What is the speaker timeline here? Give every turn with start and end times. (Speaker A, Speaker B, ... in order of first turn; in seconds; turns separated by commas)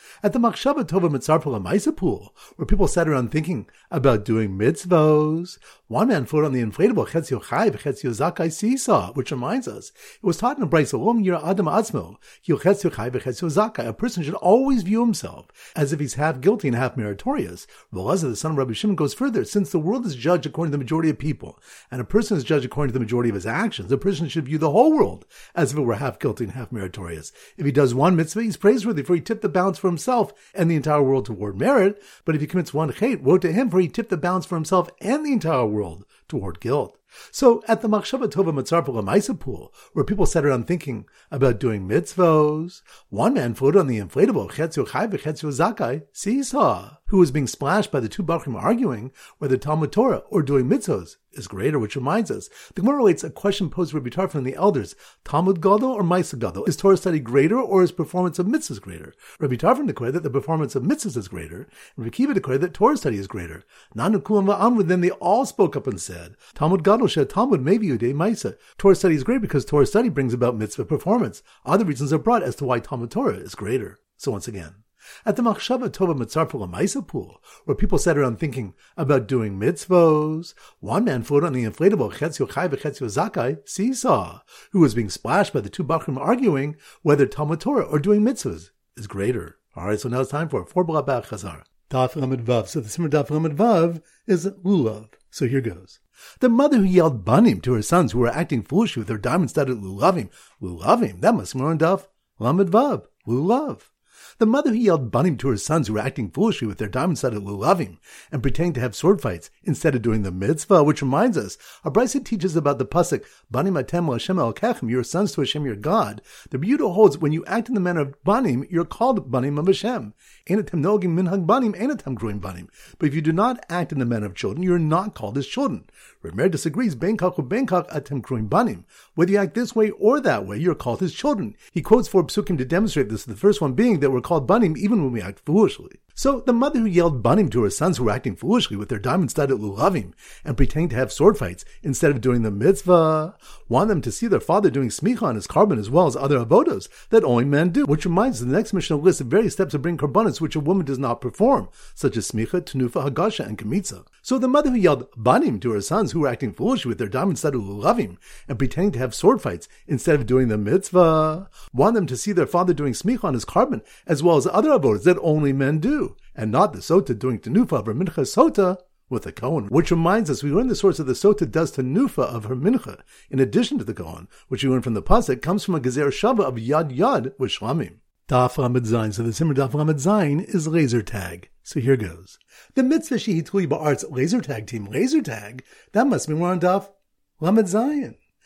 Speaker A: 0.2-188.2